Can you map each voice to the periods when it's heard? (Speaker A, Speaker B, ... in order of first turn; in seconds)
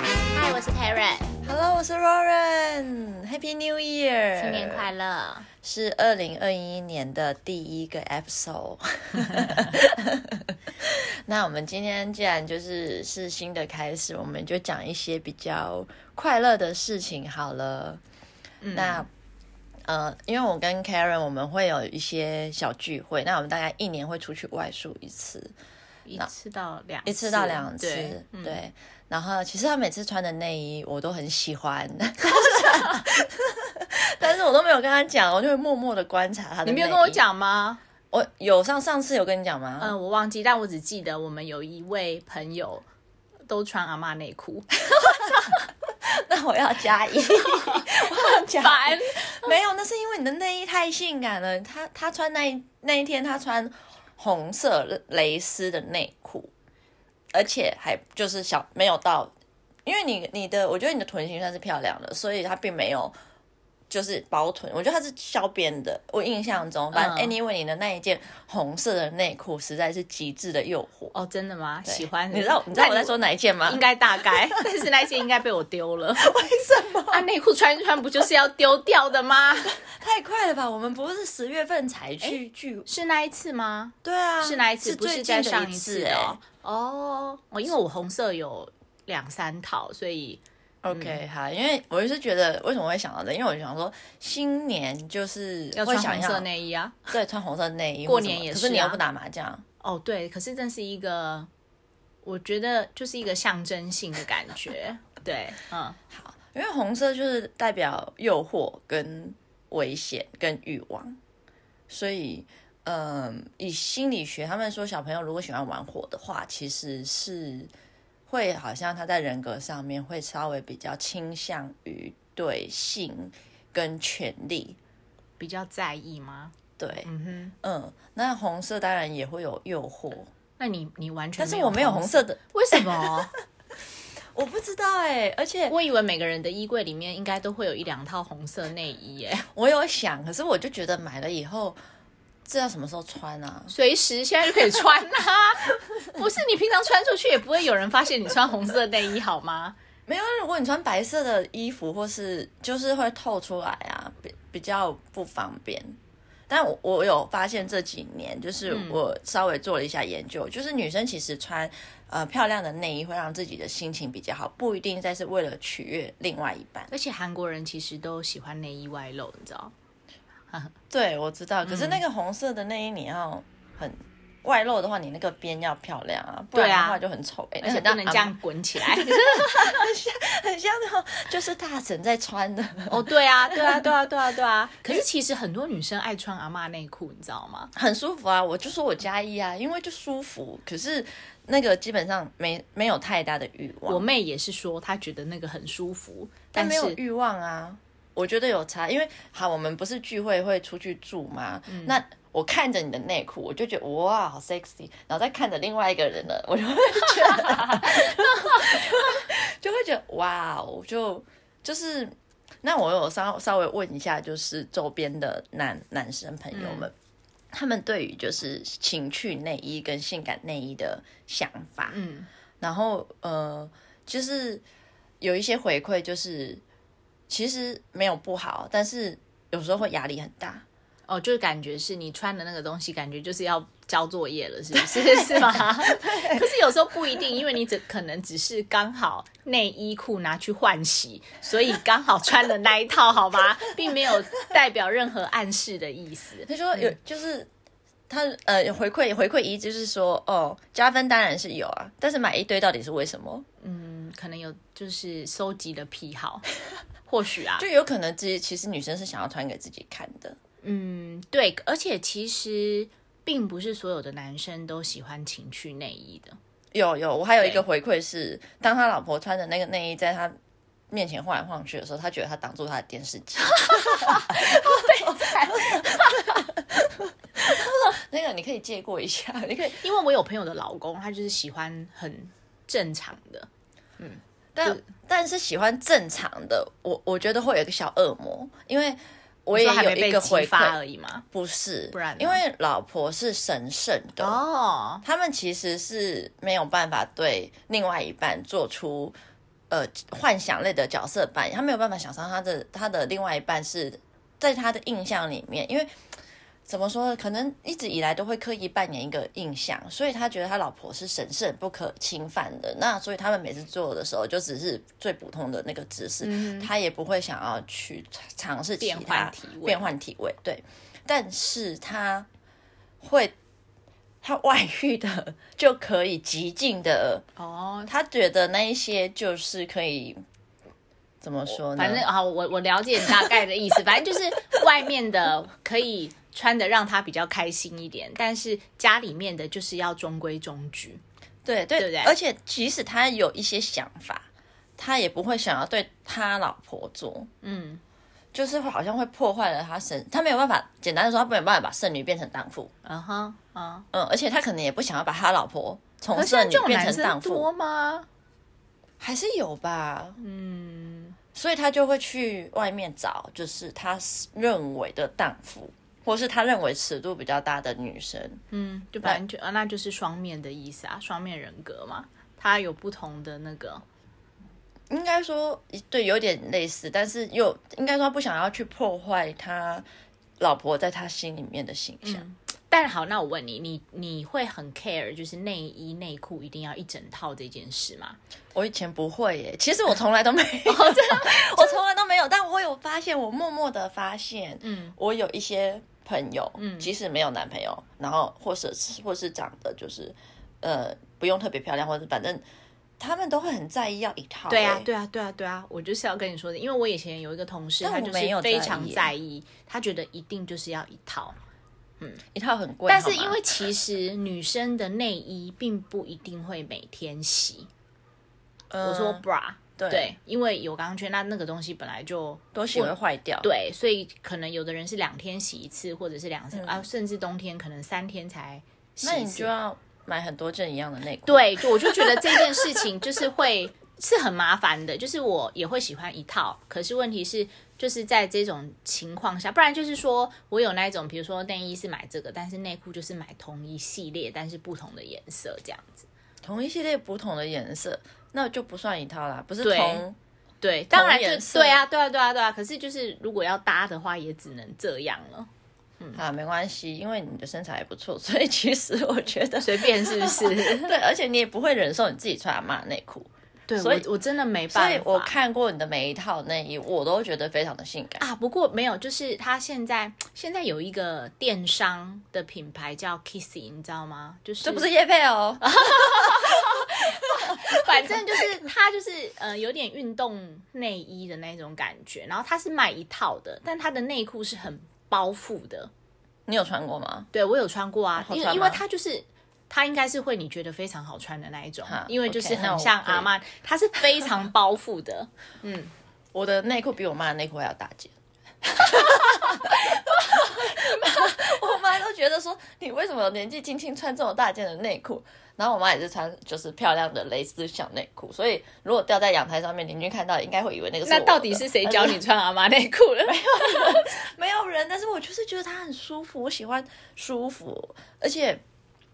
Speaker A: 0.3-1.3, 4.3-5.5, 18.6-19.1, 26.1-28.6, 36.6-37.8, 39.8-42.8, 43.5-44.7, 47.4-49.5, 66.9-67.3, 71.1-73.1, 73.7-76.3, 77.1-79.8, 82.2-91.2, 95.7-97.1, 98.0-99.0, 99.8-101.5, 102.2-106.0, 125.4-127.5, 130.6-133.3, 135.7-139.5, 143.7-149.8, 158.7-159.0, 166.9-169.7, 171.6-172.0, 176.5-177.0, 177.6-179.9, 182.9-187.7, 193.9-197.0, 201.7-202.0, 207.1-209.0, 216.5-216.9, 221.9-222.3, 231.1-246.9, 253.6-256.4, 257.1-257.6, 260.6-266.4, 273.5-276.3, 279.6-283.5, 284.0-284.8, 289.5-291.2, 291.9-292.4, 294.2-295.0, 316.2-316.7, 318.8-319.9, 327.4-327.9, 331.5-341.0, 341.8-342.1, 347.4-347.8, 352.8-353.9, 356.1-358.1, 360.2-361.2, 368.5-373.8, 382.0-388.2, 390.7-391.8, 394.6-394.9, 396.6-396.9, 404.5-411.4, 412.9-417.7, 418.8-429.5, 431.2-446.1, 449.6-450.0, 450.6-455.5, 459.6-460.9, 463.7-465.3, 468.2-474.9, 475.6-485.9, 487.3-495.9, 511.0-514.1
Speaker B: 1.4-4.9, 5.6-18.0, 18.7-19.1, 19.9-25.5, 27.0-37.2, 38.1-40.0, 44.9-45.5, 46.0-56.5, 57.3-59.3, 59.8-63.1, 63.9-71.1, 71.8-74.7, 76.2-77.3, 79.7-82.9, 84.0-86.4, 90.8-96.5, 97.1-99.6, 106.1-111.2, 111.9-117.7, 118.3-124.8, 126.8-127.1, 127.6-130.3, 131.4-133.1, 134.3-135.8, 139.5-141.8, 142.4-143.7, 150.1-156.0, 156.5-166.9, 170.9-183.9, 187.8-194.1, 196.5-216.9, 217.5-222.0, 222.6-224.6, 225.2-226.6, 227.3-230.6, 235.3-236.4, 246.5-247.5, 248.1-253.4, 257.6-260.4, 266.7-270.4, 270.9-279.8, 284.5-290.8, 291.3-294.4, 295.0-299.1, 299.7-305.9, 306.6-322.3, 323.0-323.3, 324.2-327.2, 327.9-330.2, 331.2-332.1, 341.4-347.3, 348.3-352.7, 353.9-357.5, 359.0-360.2, 361.3-368.4, 374.9-379.9, 380.4-382.2, 388.5-402.4, 403.0-404.9, 407.8-409.1, 412.3-413.4, 418.7-419.2, 419.8-420.1, 422.5-423.5, 426.5-426.8, 429.0-432.8, 446.4-450.1, 450.9-451.8, 456.1-464.1, 464.7-468.2, 474.6-476.7, 486.5-487.3, 488.1-488.8, 491.9-493.3, 496.3-498.1, 498.7-512.2, 513.2-518.6